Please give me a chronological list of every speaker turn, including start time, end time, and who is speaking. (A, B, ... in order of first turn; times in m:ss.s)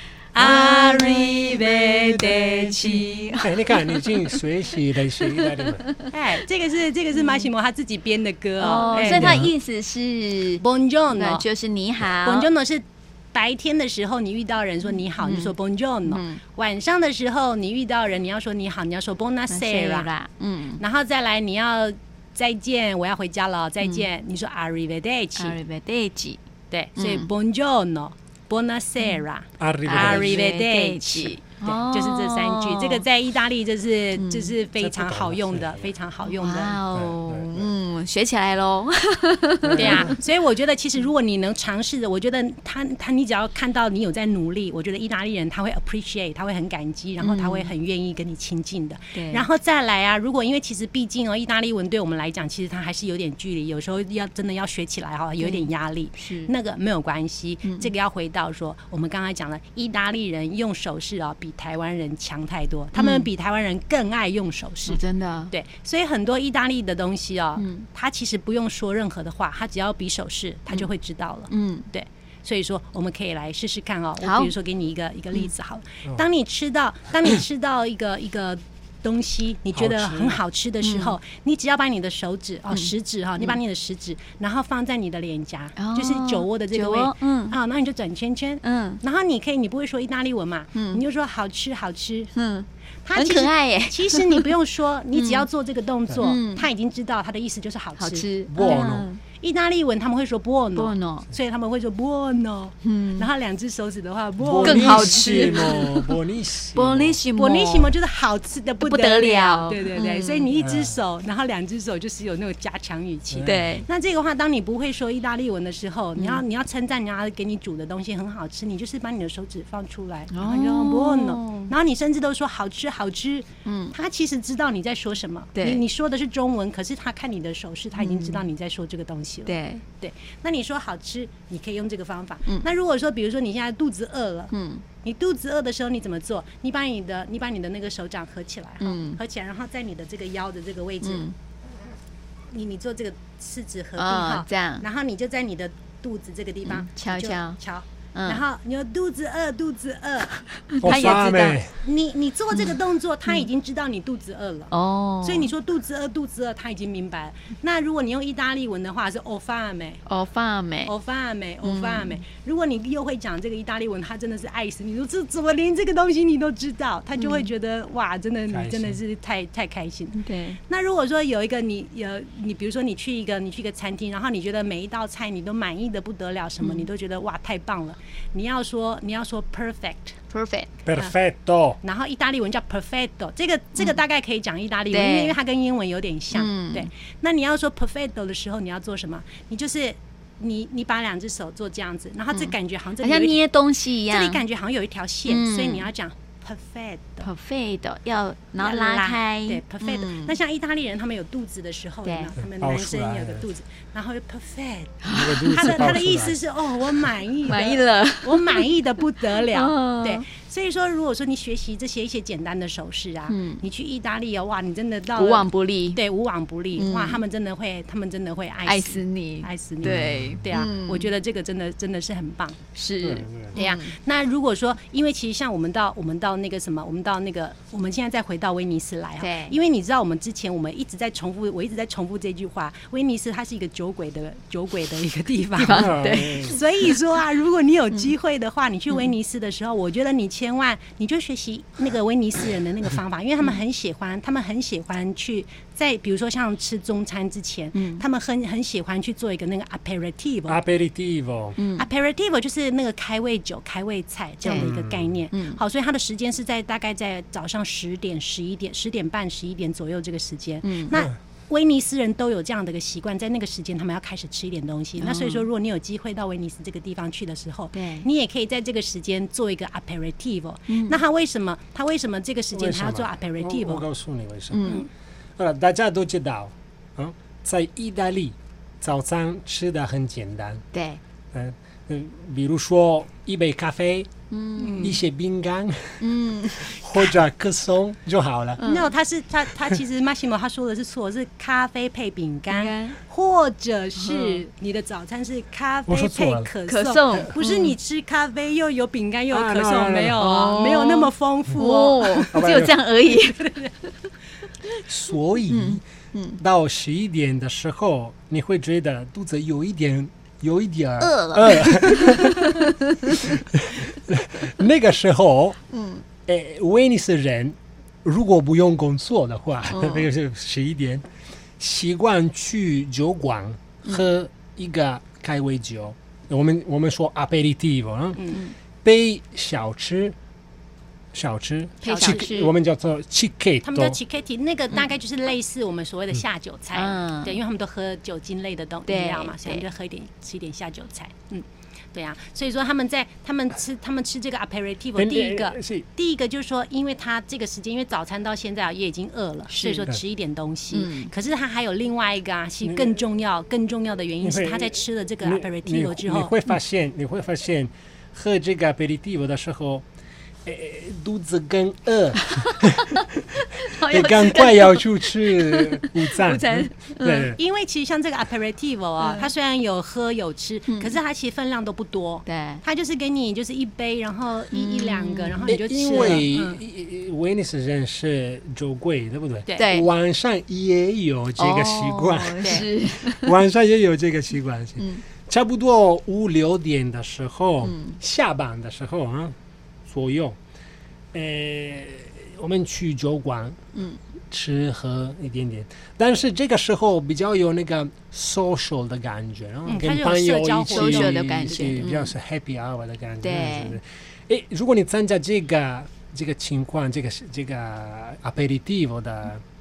0:00.3-0:03.4 A
0:00.4-0:01.4 B
0:02.9-0:03.8 B
0:03.4-0:05.9 C
0:05.3-0:06.1 B
0:06.1-0:09.5 A
0:07.2-0:07.4 B
0:08.6-0:12.5 B
0:09.1-0:09.5 C
0:10.6-0:11.4 A
0:12.2-0:20.1 A
0:15.2-0:15.5 B
0:16.1-0:16.4 B
0:19.5-0:20.8 B
0:20.8-0:25.6 A
0:25.4-0:26.4 B
0:26.7-0:36.8 A
0:27.0-0:27.3 B
0:29.6-0:30.4 C
0:29.9-0:33.0 B
0:34.2-0:34.5 B
0:34.8-0:35.9 C
0:36.3-0:40.2 B
0:36.9-0:37.7 C
0:39.6-0:40.2 C
0:39.8-1:05.0 A
0:47.2-0:47.7 B
0:49.1-0:49.4 B
0:55.4-0:56.5 B
0:57.7-0:57.9 B
1:03.0-1:03.3 B
1:04.9-1:05.5 B
1:05.5-1:32.3 A
1:07.6-1:07.9 B
1:11.5-1:11.9 B
1:14.2-1:14.5 B
1:19.7-1:20.4 C
1:20.8-1:21.2 B
1:22.7-1:23.6 B
1:25.8-1:27.6 B
1:28.6-1:29.0 B
1:30.8-1:31.0 B
1:32.4-1:34.5 B
1:33.0-1:38.9 A
1:35.1-1:35.4 B
1:36.2-1:36.7 B
1:38.0-1:39.2 B
1:38.5-1:39.1 C
1:39.4-1:45.8 A
1:40.8-1:41.3 B
1:42.8-1:43.3 B
1:44.4-1:47.2 C
1:44.6-1:46.2 B
1:46.8-1:47.9 B
1:47.4-2:21.3 A
1:48.9-1:50.5 B
1:50.6-1:51.0 C
1:53.3-1:53.8 C
1:53.4-1:53.9 B
1:56.2-1:56.4 B
2:00.3-2:01.7 B
2:03.6-2:04.0 B
2:05.6-2:05.8 B
2:08.0-2:08.4 B
2:09.5-2:09.8 B
2:14.5-2:14.8 B
2:18.8-2:19.2 B
2:21.0-2:21.3 B
2:22.5-2:31.2 A
2:24.0-2:24.8 B
2:26.6-2:27.6 B
2:28.1-2:28.4 B
2:30.6-2:31.6 B
2:30.8-2:31.7 C
2:31.8-2:34.7 A
2:34.7-2:35.5 B
2:35.2-2:40.0 A
2:40.1-2:40.9 B
2:40.9-3:00.2 A
2:41.6-2:42.2 B
2:47.2-2:47.5 B
2:48.5-2:49.0 C
2:50.2-2:50.6 B
3:00.3-3:00.7 B
3:00.9-3:01.8 C
3:01.8-3:13.4 A
3:04.9-3:05.4 B
3:06.3-3:06.9 B
3:12.3-3:14.4 B
3:14.1-3:17.3 A
3:15.3-3:15.9 B
3:17.2-3:20.4 B
3:18.6-3:42.6 A
3:22.4-3:23.5 C
3:25.0-3:25.8 B
3:25.1-3:26.4 C
3:27.4-3:28.8 B
3:29.3-3:30.2 B
3:33.3-3:33.6 B
3:35.2-3:36.0 B
3:36.8-3:37.2 B
3:38.6-3:41.1 B
3:39.8-3:40.4 C
3:42.8-3:43.9 B
3:43.0-3:43.6 C
3:43.6-4:10.6 A
3:49.2-3:49.6 B
3:55.6-3:56.9 B
3:55.7-3:56.6 C
4:07.8-4:08.0 B
4:10.5-4:11.6 C
4:11.6-4:11.9 B
4:11.8-4:33.8 A
4:14.4-4:14.7 B
4:14.6-4:15.2 C
4:15.3-4:15.6 B
4:20.6-4:21.0 B
4:25.0-4:25.5 B
4:27.7-4:28.1 B
4:30.7-4:31.0 B
4:32.5-4:34.8 C
4:34.5-4:34.9 B
4:35.4-4:40.6 C
4:40.7-4:41.0 B
4:41.3-4:44.1 C
4:44.3-4:45.0 B
4:44.6-4:45.0 A
4:44.8-4:46.0 C
4:46.0-4:47.1 B
4:46.6-4:48.6 C
4:48.6-4:48.9 B
4:48.6-5:02.4 A
4:52.5-4:53.0 B
4:54.0-4:54.4 B
4:55.9-4:56.5 C
4:56.7-4:57.8 B
4:59.3-5:00.2 C
5:00.2-5:03.8 B
5:02.3-5:02.7 C
5:03.2-5:03.7 A
5:04.8-5:05.8 C
5:05.5-5:06.4 B
5:06.4-5:15.6 C
5:11.0-5:13.4 B
5:15.7-5:16.0 B
5:16.3-5:21.0 C
5:19.7-5:20.1 B
5:21.6-5:28.2 C
5:28.2-5:28.4 A
5:28.8-5:30.2 C
5:31.1-5:34.0 C
5:31.8-5:32.5 B
5:31.9-5:32.2 A
5:33.6-5:56.3 A
5:36.7-5:37.4 B
5:38.9-5:39.6 B
5:45.0-5:45.9 C
5:49.5-5:49.9 B
5:50.7-5:51.1 B
5:52.6-5:53.0 C
5:54.2-5:59.8 C
6:00.4-6:07.4 C
6:02.3-6:07.4 B
6:07.4-6:16.6 A
6:09.0-6:09.3 B
6:10.7-6:11.0 B
6:12.3-6:12.6 B
6:14.5-6:16.2 B
6:15.5-6:29.4 C
6:19.6-6:19.9 B
6:21.4-6:23.4 B
6:27.6-6:28.0 B
6:29.9-6:30.4 C
6:31.1-6:33.7 C
6:34.3-6:49.4 C
6:39.7-6:41.2 A
6:40.7-6:42.1 B
6:43.2-6:43.8 B